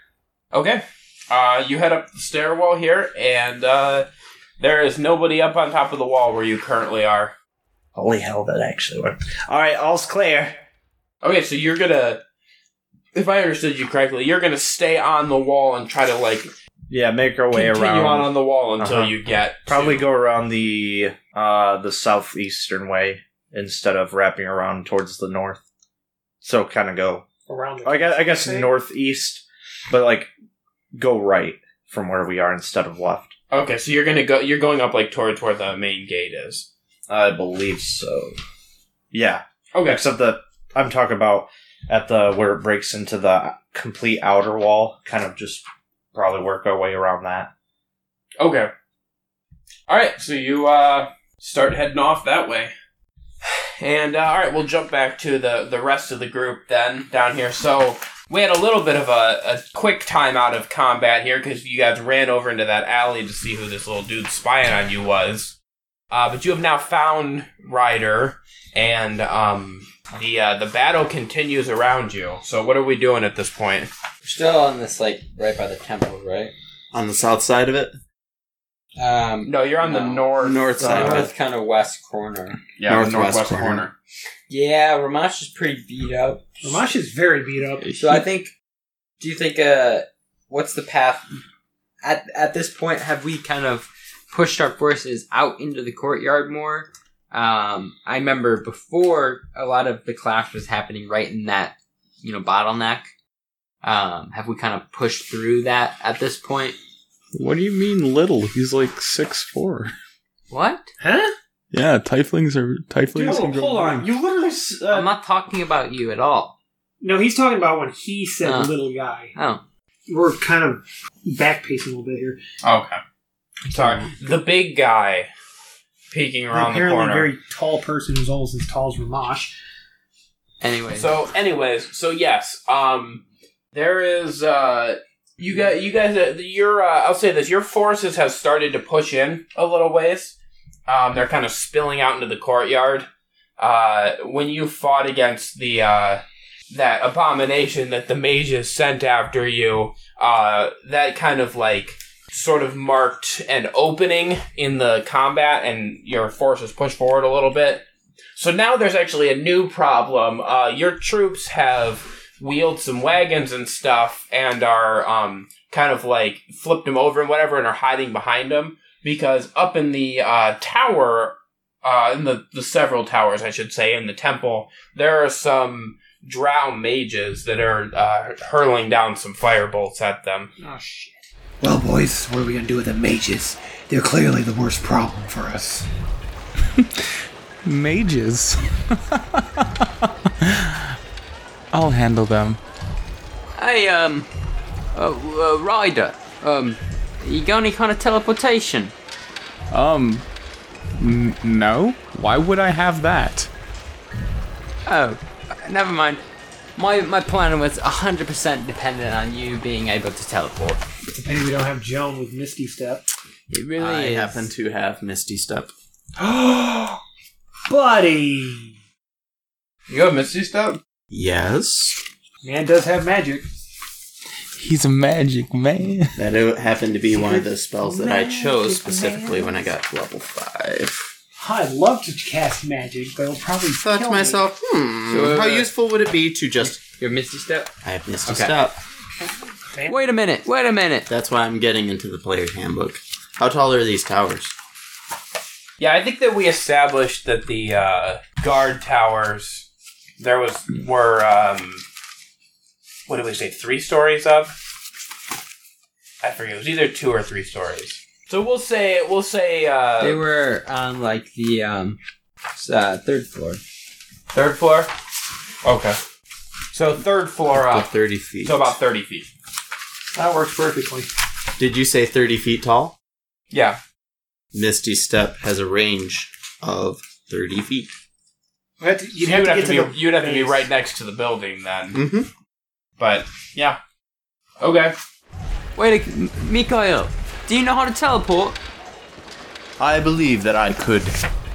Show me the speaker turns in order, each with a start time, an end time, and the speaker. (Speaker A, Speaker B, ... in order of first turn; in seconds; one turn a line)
Speaker A: 0.5-4.1
Speaker A: 4.6-7.3
Speaker B: 8.0-10.6
Speaker A: 11.2-12.2
Speaker A: 13.1-16.5
Speaker B: 16.9-19.1
Speaker A: 17.5-20.1
Speaker B: 19.7-25.6
Speaker B: 26.4-27.3
Speaker C: 27.5-28.7
Speaker B: 27.8-30.3
Speaker B: 30.9-33.4
Speaker A: 33.5-36.7
Speaker B: 37.1-38.4
Speaker B: 39.1-47.5
Speaker A: 39.7-40.0
Speaker A: 48.4-48.7
Speaker A: 49.9-52.7
Speaker A: 53.5-65.6
Speaker A: 66.1-73.9
Speaker D: 74.2-76.5
Speaker E: 76.9-78.0
Speaker D: 79.0-82.6
Speaker A: 79.5-80.9
Speaker E: 80.4-81.3
Speaker C: 80.8-81.3
Speaker A: 82.8-83.9
Speaker E: 82.9-83.9
Speaker D: 84.5-86.8
Speaker C: 86.6-88.2
Speaker D: 88.0-88.5
Speaker D: 89.2-91.3
Speaker D: 92.0-103.1
Speaker D: 103.8-106.8
Speaker F: 107.3-109.9
Speaker D: 110.5-110.9
Speaker C: 111.0-111.3
Speaker F: 111.7-114.0
Speaker C: 113.2-114.1
Speaker B: 113.8-115.0
Speaker D: 114.9-116.5
Speaker C: 117.0-119.3
Speaker D: 118.4-118.7
Speaker D: 119.3-119.6
Speaker C: 120.1-122.4
Speaker A: 122.6-123.0
Speaker A: 123.7-125.3
Speaker A: 126.1-127.3
Speaker C: 126.5-129.6
Speaker D: 130.6-131.1
Speaker A: 130.9-140.4
Speaker A: 140.9-143.1
Speaker A: 143.6-157.8
Speaker A: 158.4-180.5
Speaker C: 180.6-181.2
Speaker G: 181.6-185.9
Speaker F: 187.7-189.8
Speaker F: 190.4-190.9
Speaker F: 191.7-192.6
Speaker D: 193.6-194.3
Speaker D: 194.9-198.9
Speaker F: 199.7-200.2
Speaker F: 201.0-203.5
Speaker D: 204.9-206.2
Speaker D: 206.8-210.8
Speaker C: 211.1-213.1
Speaker D: 213.5-214.5
Speaker E: 213.8-215.7
Speaker C: 216.2-217.0
Speaker C: 217.7-218.8
Speaker A: 219.9-220.8
Speaker E: 221.1-222.0
Speaker C: 222.4-223.5
Speaker F: 224.6-226.2
Speaker E: 226.2-231.1
Speaker C: 227.2-229.6
Speaker C: 231.4-234.5
Speaker E: 233.8-237.0
Speaker D: 235.0-235.7
Speaker D: 236.6-237.7
Speaker E: 237.8-238.8
Speaker D: 238.3-238.6
Speaker C: 239.7-240.0
Speaker D: 239.9-241.1
Speaker E: 241.1-244.5
Speaker A: 245.8-249.7
Speaker A: 250.2-251.8
Speaker A: 253.1-254.5
Speaker A: 256.2-260.2
Speaker D: 260.0-262.0
Speaker D: 262.6-263.6
Speaker A: 264.3-264.9
Speaker A: 265.6-266.0
Speaker A: 266.7-269.3
Speaker E: 267.5-268.7
Speaker C: 270.1-271.1
Speaker E: 271.6-272.9
Speaker A: 273.5-273.8
Speaker E: 274.5-277.9
Speaker C: 278.8-280.7
Speaker A: 279.2-282.0
Speaker E: 281.9-282.3
Speaker A: 283.0-283.8
Speaker A: 284.6-284.9
Speaker D: 285.8-288.6
Speaker E: 289.8-291.2